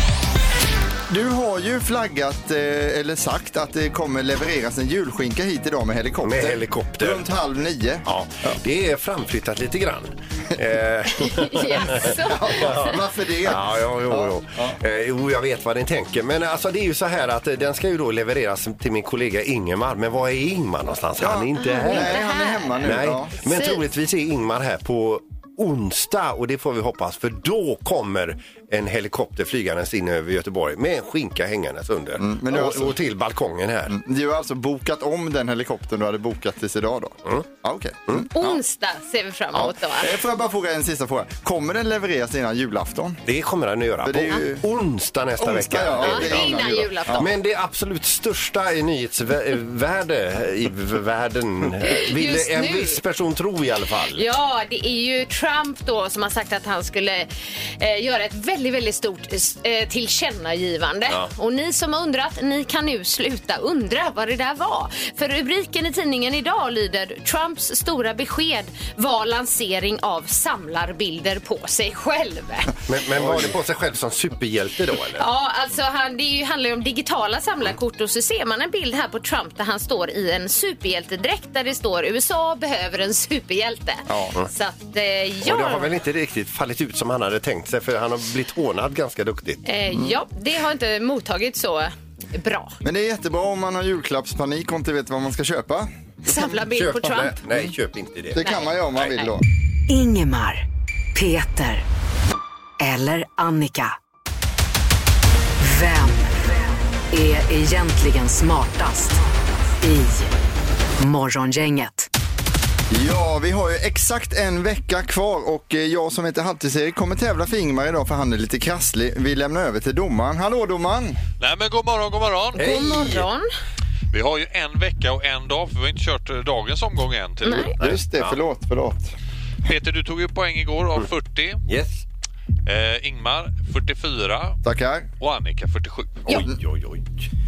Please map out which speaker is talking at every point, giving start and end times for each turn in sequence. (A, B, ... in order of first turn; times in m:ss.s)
0:01.1-0:08.6 A
0:06.2-0:07.2 B
0:08.0-0:22.2 B
0:11.2-0:12.9 C
0:12.1-0:14.8 A
0:21.2-0:23.4 A
0:21.6-0:22.9 C
0:22.8-0:34.0 B
0:23.4-0:23.8 C
0:32.2-0:33.0 A
0:33.9-0:38.6 A
0:38.3-0:40.2 C
0:39.5-0:43.2 A
0:43.2-0:54.2 B
0:44.0-0:44.6 A
0:45.4-0:47.3 A
0:46.0-0:47.3 C
0:51.8-0:53.0 C
0:54.2-1:12.7 C
1:12.9-1:15.2 B
1:13.2-1:13.5 A
1:15.2-1:25.9 C
1:24.1-1:24.4 A
1:25.4-1:29.6 B
1:29.6-1:32.8 C
1:29.9-1:30.2 A
1:32.8-1:35.9 A
1:36.2-1:37.4 C
1:36.6-1:38.4 B
1:38.3-1:39.4 A
1:38.4-1:39.3 C
1:39.9-1:40.6 D
1:41.1-1:41.8 D
1:42.8-1:44.0 D
1:45.6-1:46.3 D
1:47.1-1:49.2 D
1:49.8-1:50.3 D
1:51.0-1:52.1 D
1:52.9-2:01.2 A
2:01.4-2:02.7 E
2:02.6-2:03.3 B
2:02.6-2:03.5 C
2:04.1-2:08.3 E
2:07.4-2:07.7 C
2:07.8-2:09.1 A
2:09.6-2:11.6 E
2:11.7-2:12.0 B
2:12.6-2:14.6 E
2:14.6-2:15.1 A
2:15.2-2:16.3 E
2:16.3-2:17.3 B
2:16.3-2:16.6 A